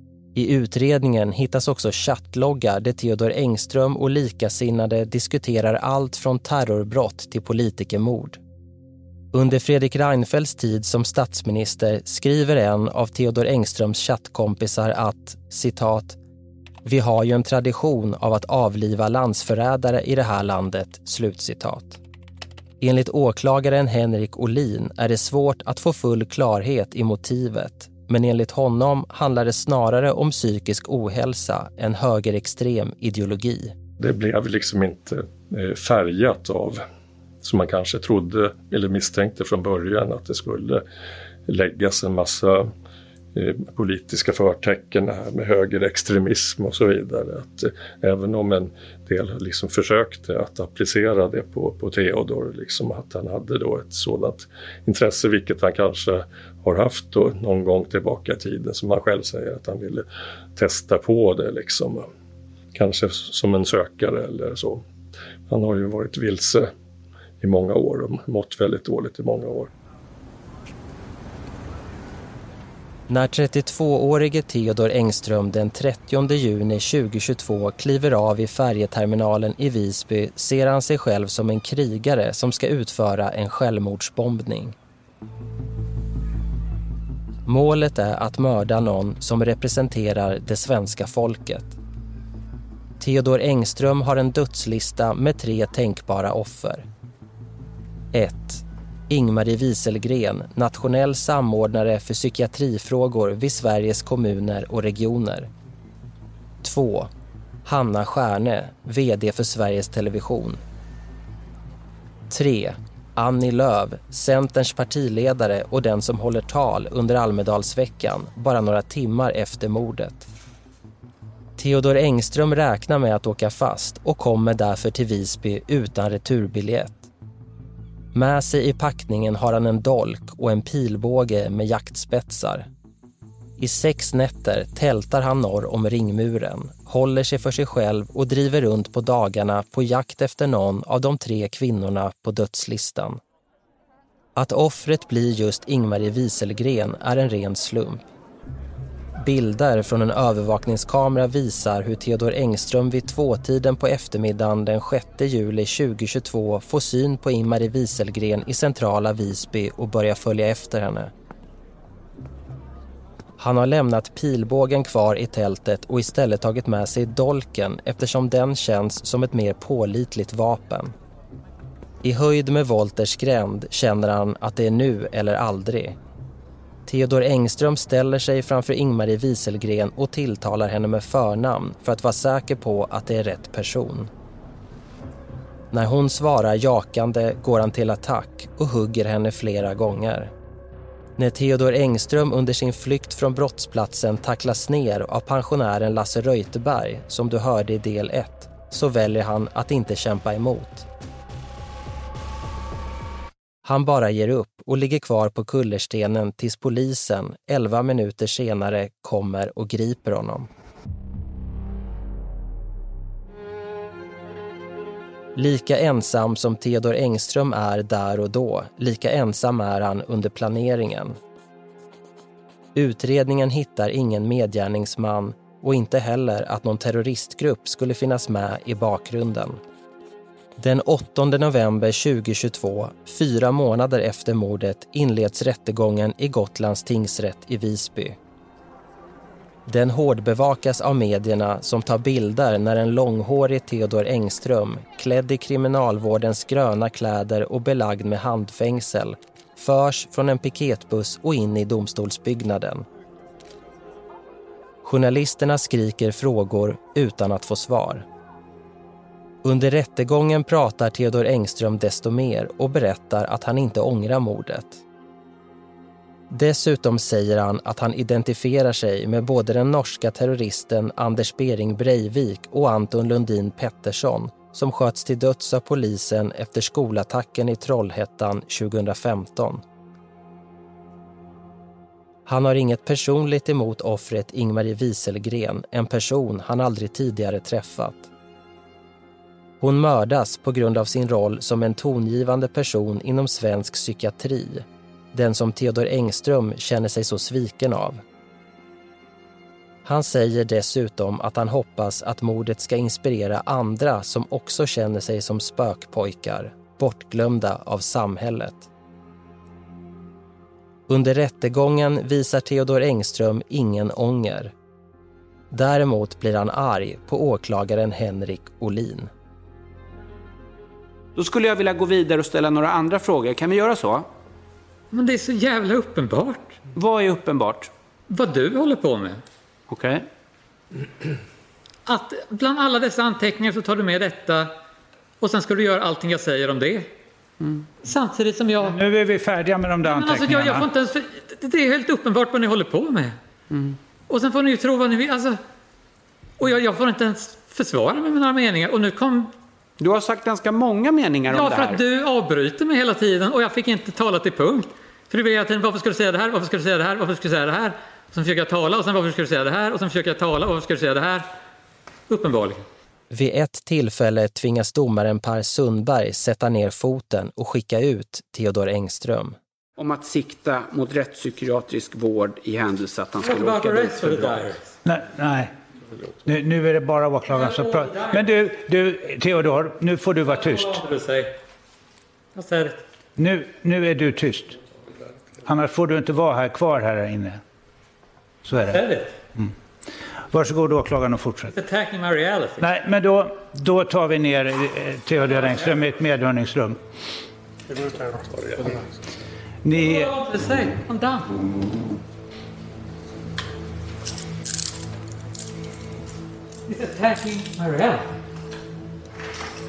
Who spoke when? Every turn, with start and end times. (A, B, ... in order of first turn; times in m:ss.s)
0:00.4-0:08.4 A
0:09.3-0:16.2 A
0:16.8-0:22.0 A
0:22.8-0:33.7 A
0:34.0-0:36.8 B
0:37.4-0:40.8 B
0:41.5-0:42.7 B
0:43.4-1:00.0 B
1:00.6-1:02.1 B
1:02.7-1:04.8 B
1:05.5-1:06.7 B
1:07.4-1:09.7 B
1:13.1-1:24.8 A
1:27.5-1:31.8 A
1:33.0-1:36.9 A
1:38.1-1:45.5 A
1:46.6-1:47.1 A
1:47.6-1:50.6 A
1:52.3-2:00.3 A
2:01.6-2:07.1 A
2:08.1-2:12.7 A
2:13.6-2:23.2 A
2:24.4-2:28.1 A
2:29.2-2:41.1 A
2:43.4-2:50.9 A
2:52.0-2:56.0 A
2:56.9-3:04.1 A
3:05.7-3:10.3 A
3:11.2-3:20.9 A
3:23.6-3:30.5 A
3:35.4-3:41.2 A
3:42.8-3:49.6 A
3:50.6-3:58.2 A
3:59.7-4:12.8 A
4:14.8-4:18.0 A
4:19.4-4:24.8 A
4:26.3-4:39.6 A
4:42.2-4:48.1 A
4:49.6-4:58.0 A
4:59.8-5:08.7 A
5:10.9-5:14.5 A
5:15.5-5:19.1 A
5:21.2-5:24.1 C
5:24.9-5:26.6 D
5:26.7-5:27.7 C
5:28.1-5:29.2 D
5:29.7-5:30.0 C
5:31.9-5:34.5 D
5:35.2-5:36.9 D
5:37.4-5:37.7 C
5:37.8-5:38.8 D
5:38.6-5:40.7 E
5:39.8-5:43.2 D
5:43.5-5:43.8 C
5:44.1-5:45.4 D
5:46.4-5:49.3 D
5:49.8-5:51.8 C
5:51.3-6:01.3 D
6:02.1-6:02.6 D
6:03.1-6:09.4 A
6:09.8-6:14.4 C
6:13.2-6:14.6 D
6:14.8-6:15.5 E
6:16.2-6:20.9 E
6:17.2-6:18.3 D
6:20.2-6:21.4 D
6:22.4-6:22.8 D
6:23.2-6:24.6 E
6:25.4-6:27.4 E
6:28.4-6:28.8 E
6:28.7-6:29.2 D
6:30.3-6:31.5 E
6:31.5-6:32.7 D
6:32.6-6:36.8 E
6:35.4-6:35.7 D
6:39.6-6:40.1 E
6:39.8-6:41.3 D
6:46.7-6:48.2 D